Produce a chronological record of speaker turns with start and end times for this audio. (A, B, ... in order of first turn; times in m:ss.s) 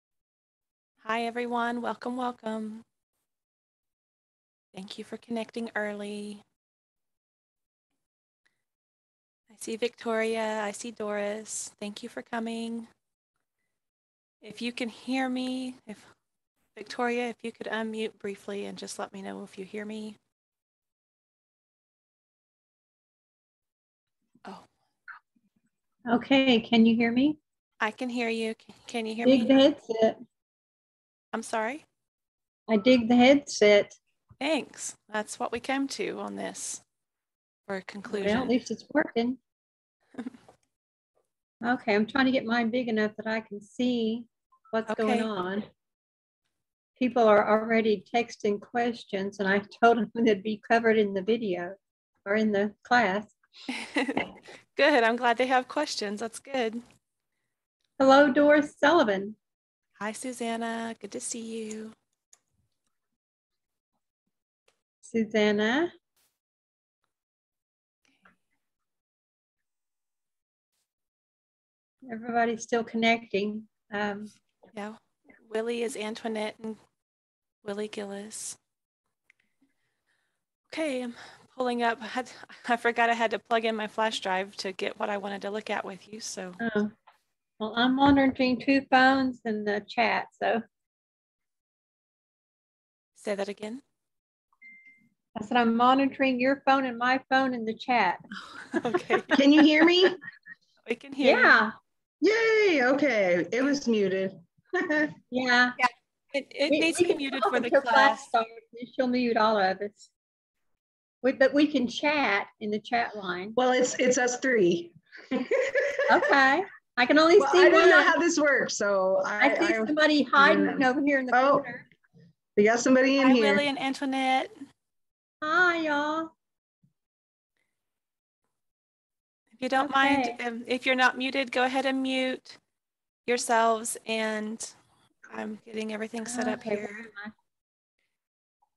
0:01.0-0:02.8 A
0:04.7-0:06.4 A
0:09.5-0:12.9 A
0:14.4-0:16.1 A
0:16.8-0:20.2 A
0:26.1-0:27.4 B
0:27.8-0:29.5 A
0:29.2-0:30.2 B
0:31.3-0:31.8 A
0:32.7-0:34.0 B
0:34.4-0:36.8 A
0:37.7-0:38.5 A
0:38.1-0:39.4 B
0:41.6-0:45.7 B
0:44.9-0:45.3 A
0:47.0-0:53.3 B
0:53.7-0:56.8 A
0:58.0-0:59.4 B
1:00.0-1:02.0 A
1:05.0-1:05.9 B
1:12.0-1:14.3 B
1:14.7-1:16.8 A
1:17.6-1:18.6 A
1:20.7-1:26.6 A
1:26.6-1:26.9 B
1:27.6-1:30.6 B
1:33.2-1:33.8 A
1:35.4-1:39.2 B
1:38.7-1:39.4 A
1:39.3-1:40.2 C
1:40.8-1:41.6 A
1:41.2-1:41.7 B
1:42.2-1:45.1 C
1:45.3-1:45.8 B
1:45.8-1:48.2 A
1:46.7-1:50.1 B
1:51.2-1:53.6 B
1:53.6-1:56.0 C
1:56.1-1:58.1 B
1:57.4-2:01.6 C
1:59.4-2:01.9 B
2:02.6-2:03.7 C
2:03.2-2:04.5 A
2:05.4-2:06.3 B
2:09.6-2:12.6 A
2:09.8-2:10.4 B
2:13.2-2:14.7 A
2:15.3-2:17.0 A
2:16.2-2:17.3 B